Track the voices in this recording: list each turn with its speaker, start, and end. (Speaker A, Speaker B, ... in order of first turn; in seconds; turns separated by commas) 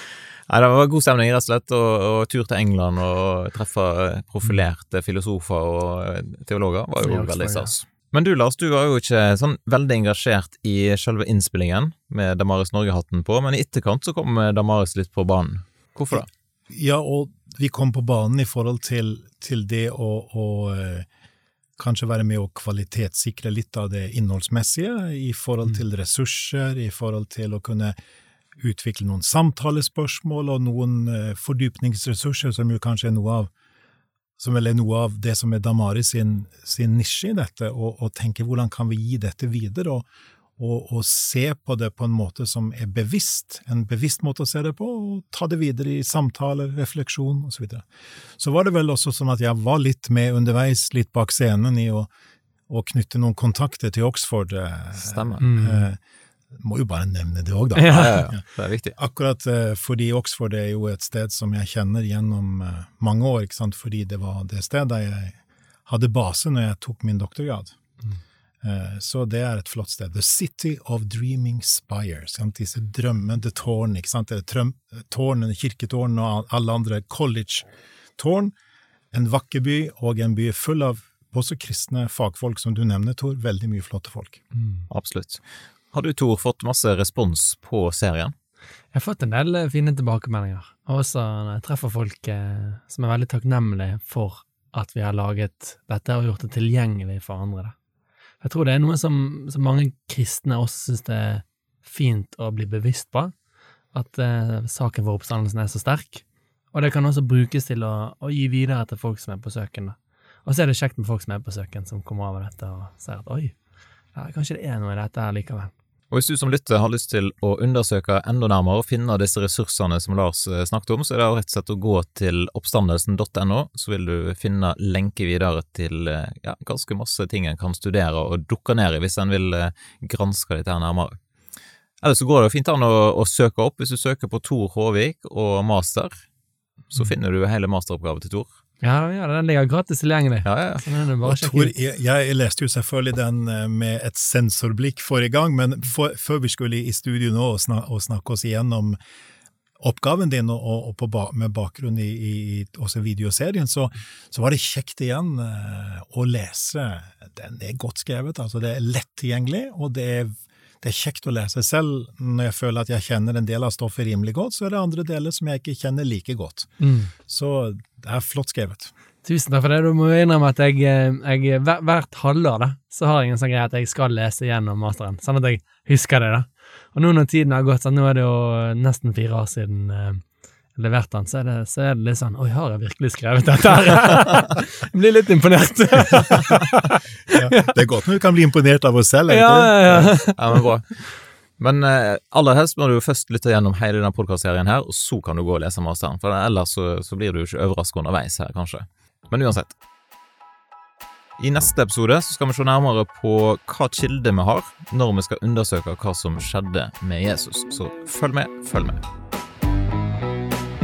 Speaker A: 0.5-16.3, Speaker B: 7.0-7.7, Speaker C: 16.1-21.1, Speaker C: 21.8-27.9, Speaker C: 28.6-33.5, Speaker C: 34.4-40.0, Speaker C: 40.6-47.8, Speaker C: 48.4-52.1, Speaker C: 52.7-56.0, Speaker A: 55.0-55.5, Speaker B: 55.4-55.9, Speaker C: 56.5-58.4, Speaker B: 57.7-58.2, Speaker A: 57.9-59.0, Speaker C: 58.9-67.7, Speaker C: 68.6-77.7, Speaker C: 78.2-78.5, Speaker C: 79.1-84.4, Speaker A: 84.9-85.4, Speaker A: 85.9-88.3, Speaker B: 88.9-97.7, Speaker B: 98.4-103.3, Speaker B: 103.9-113.5, Speaker B: 114.1-115.7, Speaker A: 116.1-131.2, Speaker A: 132.0-136.1, Speaker A: 136.9-138.5, Speaker B: 138.8-141.7, Speaker A: 140.4-140.8, Speaker C: 141.2-149.0, Speaker C: 149.8-166.7, Speaker B: 166.8-167.1, Speaker C: 167.3-168.9, Speaker B: 169.2-180.2, Speaker B: 180.7-187.7, Speaker C: 187.3-190.2, Speaker B: 189.3-190.4, Speaker A: 190.1-191.0, Speaker A: 191.6-199.8, Speaker A: 201.4-209.0